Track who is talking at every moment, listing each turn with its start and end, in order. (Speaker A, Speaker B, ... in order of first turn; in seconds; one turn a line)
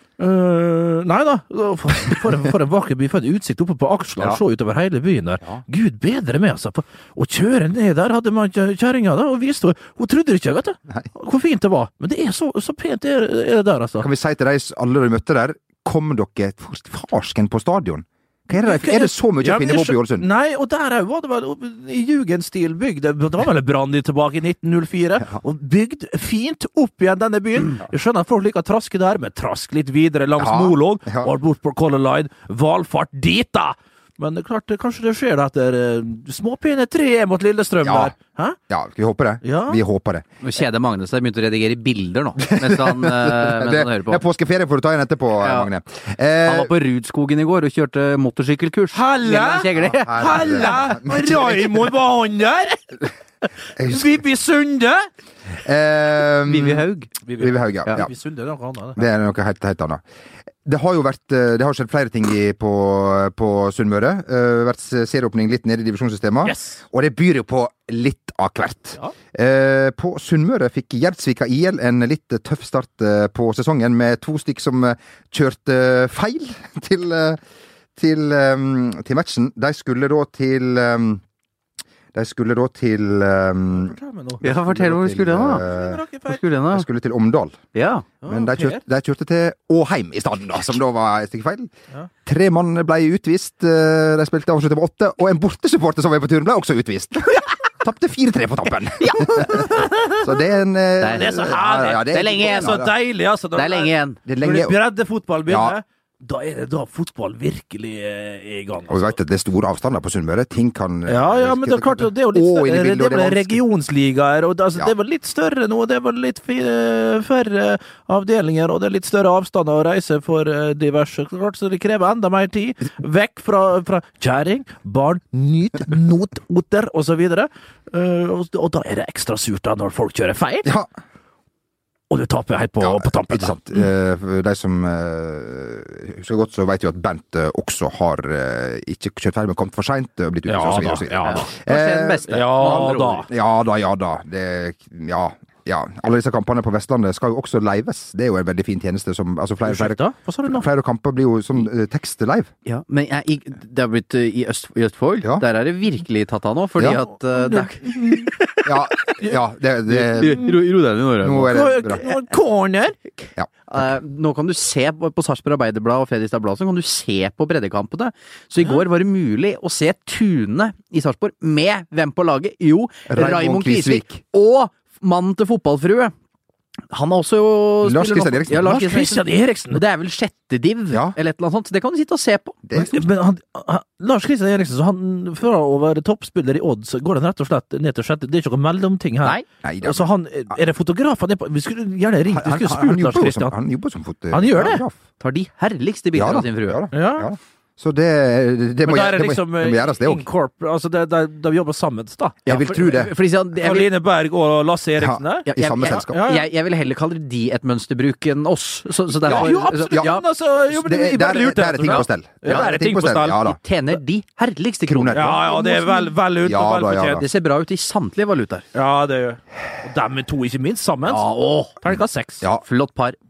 Speaker A: 0.2-14.1
Speaker B: 14.0-20.3
Speaker A: 18.6-38.6
Speaker B: 30.4-31.3
Speaker B: 37.8-38.1
Speaker B: 38.7-40.2
Speaker A: 39.4-39.8
Speaker C: 40.4-44.2
Speaker B: 42.4-46.7
Speaker C: 45.4-45.7
Speaker C: 46.5-50.9
Speaker A: 48.9-52.8
Speaker B: 49.8-51.8
Speaker B: 53.8-54.2
Speaker A: 53.8-55.1
Speaker B: 55.6-56.9
Speaker C: 56.5-57.1
Speaker A: 57.2-59.0
Speaker B: 57.4-58.1
Speaker B: 59.0-60.0
Speaker B: 60.6-77.4
Speaker A: 66.4-66.8
Speaker B: 78.0-81.2
Speaker B: 82.1-86.0
Speaker A: 83.7-84.4
Speaker C: 84.4-85.6
Speaker A: 85.6-86.4
Speaker C: 86.3-86.9
Speaker B: 86.7-87.7
Speaker C: 87.7-88.1
Speaker A: 88.2-88.8
Speaker B: 88.3-91.7
Speaker B: 92.3-103.0
Speaker C: 99.0-100.1
Speaker C: 101.0-102.9
Speaker A: 101.1-109.2
Speaker C: 103.5-104.2
Speaker B: 104.2-104.8
Speaker B: 105.5-105.8
Speaker B: 108.9-113.6
Speaker A: 111.1-130.7
Speaker B: 130.7-130.9
Speaker A: 132.1-133.9
Speaker B: 132.8-152.5
Speaker A: 140.5-141.5
Speaker C: 141.2-143.3
Speaker A: 142.3-143.3
Speaker A: 149.7-150.7
Speaker C: 152.7-158.7
Speaker B: 156.8-157.0
Speaker A: 157.1-158.3
Speaker B: 158.7-160.4
Speaker C: 159.9-162.1
Speaker A: 160.1-160.5
Speaker B: 161.2-162.0
Speaker A: 161.5-163.0
Speaker B: 163.4-163.9
Speaker C: 163.7-176.1
Speaker B: 173.1-174.2
Speaker C: 176.9-182.6
Speaker B: 177.8-178.8
Speaker A: 178.5-179.8
Speaker B: 180.9-181.2
Speaker B: 182.7-183.1
Speaker A: 182.8-193.5
Speaker B: 189.6-190.1
Speaker B: 192.3-195.0
Speaker A: 194.3-194.8
Speaker C: 195.2-196.9
Speaker B: 196.1-200.3
Speaker A: 196.9-197.3
Speaker A: 198.8-202.4
Speaker C: 202.4-203.9
Speaker B: 202.5-203.1
Speaker A: 203.6-205.5
Speaker B: 205.0-206.2
Speaker C: 205.5-210.2
Speaker A: 206.1-206.5
Speaker A: 209.2-213.5
Speaker B: 209.3-213.6
Speaker C: 211.9-212.8
Speaker C: 213.4-216.1
Speaker B: 214.9-215.6
Speaker A: 215.1-217.2
Speaker B: 216.4-217.2
Speaker C: 217.1-218.7
Speaker A: 218.7-222.4
Speaker C: 221.1-221.8
Speaker C: 222.6-223.2